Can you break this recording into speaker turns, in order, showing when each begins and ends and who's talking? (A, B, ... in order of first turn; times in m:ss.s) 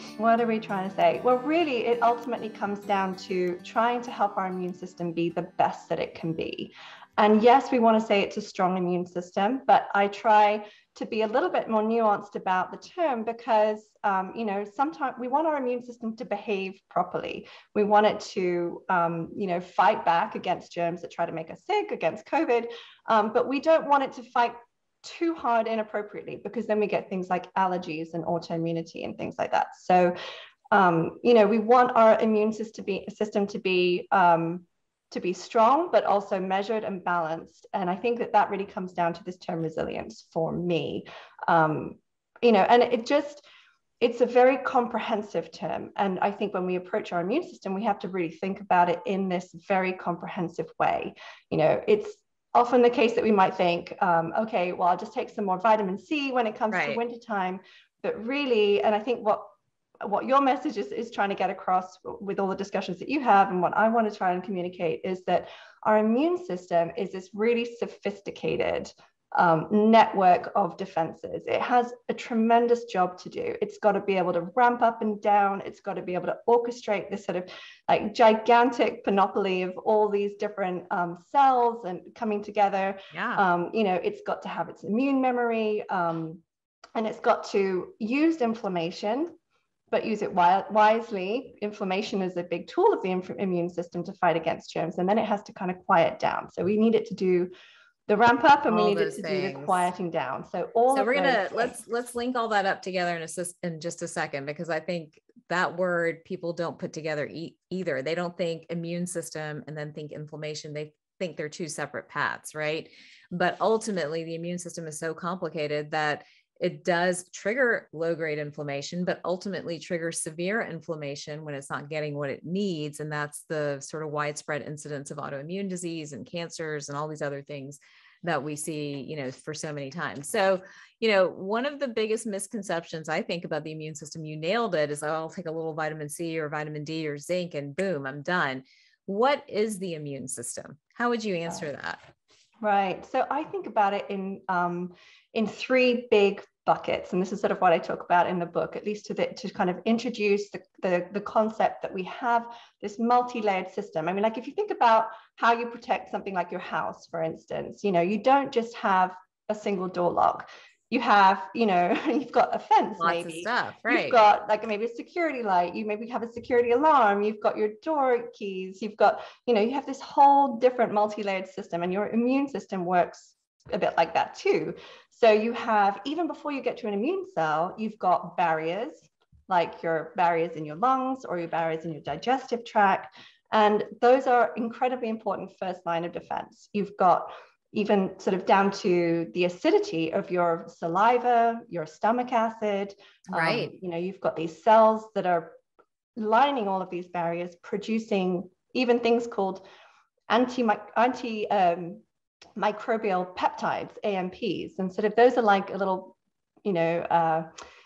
0:00.2-0:30.1 A
0:30.7-0:43.4 A
0:44.0-0:59.5 A
0:56.7-0:57.0 B
1:00.0-1:26.4 A
1:23.1-1:23.4 B
1:27.0-1:29.3 A
1:29.9-1:37.5 A
1:38.1-1:41.8 A
1:38.7-1:39.9 B
1:40.9-2:22.0 B
2:22.6-3:15.5 A
2:43.0-2:44.2 B
3:13.3-3:13.7 B
3:16.2-3:19.6 A
3:20.3-3:22.0 A
3:22.6-3:27.5 A